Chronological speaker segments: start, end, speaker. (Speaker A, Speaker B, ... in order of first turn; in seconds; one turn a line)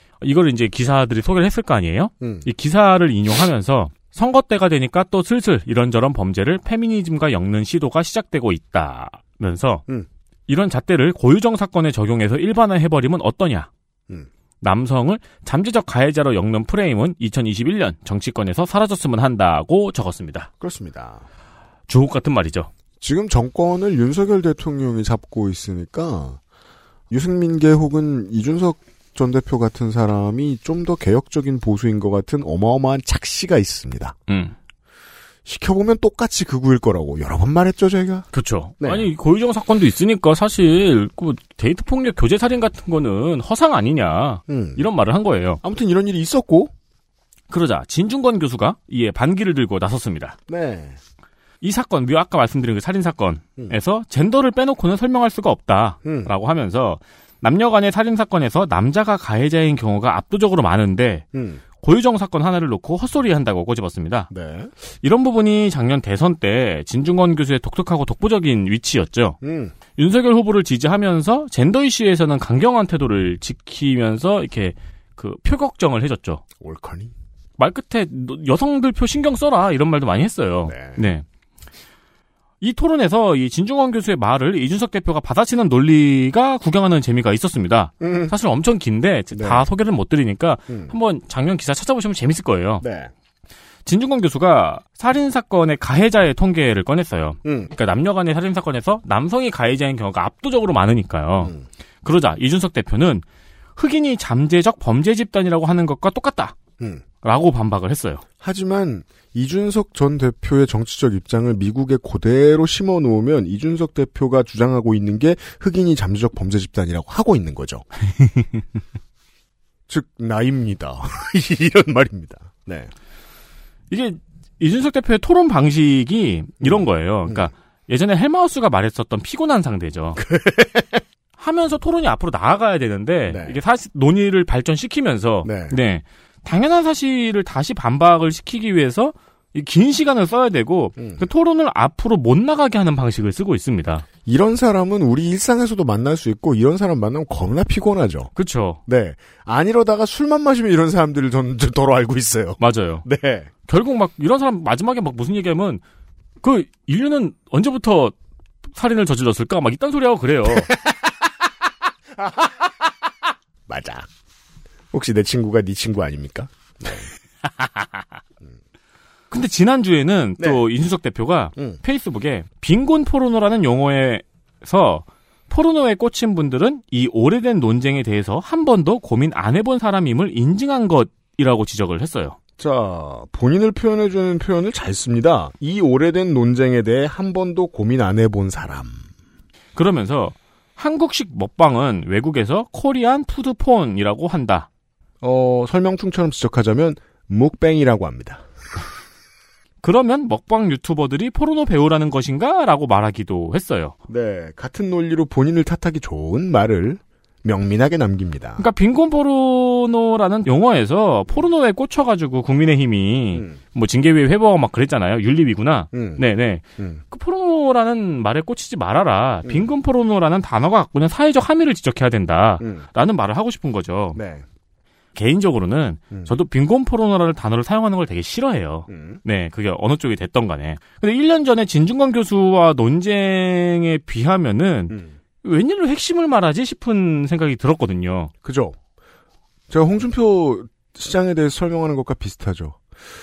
Speaker A: 0.2-9.8
Speaker B: 2.2-2.5
Speaker A: 10.5-13.7
Speaker A: 14.6-20.5
Speaker B: 20.6-21.2
Speaker A: 21.9-22.7
Speaker B: 23.0-26.4
Speaker B: 27.1-34.2
Speaker A: 34.3-34.5
Speaker B: 35.5-38.3
Speaker A: 38.3-45.6
Speaker B: 38.8-39.1
Speaker B: 44.5-44.9
Speaker B: 45.6-46.7
Speaker A: 47.5-50.4
Speaker B: 50.5-51.0
Speaker A: 51.6-64.3
Speaker B: 56.0-56.3
Speaker B: 61.3-61.6
Speaker B: 64.3-64.7
Speaker A: 65.0-69.4
Speaker B: 69.4-69.8
Speaker A: 69.9-76.4
Speaker B: 76.5-77.1
Speaker A: 77.6-81.2
Speaker B: 80.7-81.0
Speaker A: 82.6-92.8
Speaker B: 88.0-88.3
Speaker B: 89.3-89.7
Speaker B: 90.7-90.9
Speaker B: 92.8-93.1
Speaker A: 93.9-103.2
Speaker B: 97.4-97.7
Speaker B: 101.4-101.7
Speaker A: 103.8-106.6
Speaker B: 106.8-107.0
Speaker A: 107.2-108.2
Speaker B: 108.4-117.8
Speaker B: 119.9-122.9
Speaker A: 123.9-130.2
Speaker B: 126.6-127.5
Speaker B: 130.2-131.0
Speaker A: 131.4-144.1
Speaker B: 133.3-133.6
Speaker B: 135.4-135.8
Speaker B: 141.0-141.3
Speaker B: 144.2-148.3
Speaker A: 148.4-148.8
Speaker B: 148.9-153.5
Speaker A: 152.6-153.1
Speaker A: 153.6-155.8
Speaker A: 156.4-158.1
Speaker A: 158.7-160.7
Speaker B: 160.5-161.1
Speaker B: 162.2-162.6
Speaker B: 163.7-164.1
Speaker B: 164.9-167.1
Speaker A: 169.3-182.4
Speaker B: 182.6-189.0
Speaker A: 189.8-194.7
Speaker B: 195.2-198.4
Speaker A: 199.8-203.9
Speaker B: 204.1-208.7
Speaker A: 208.6-224.2
Speaker B: 213.3-213.6
Speaker B: 215.9-216.2
Speaker B: 216.8-217.0
Speaker B: 219.4-219.7
Speaker B: 222.6-222.9
Speaker B: 224.2-224.4
Speaker A: 225.2-238.3
Speaker B: 226.1-226.3
Speaker B: 228.9-229.2
Speaker B: 234.9-235.2
Speaker B: 238.4-238.8
Speaker B: 239.7-242.8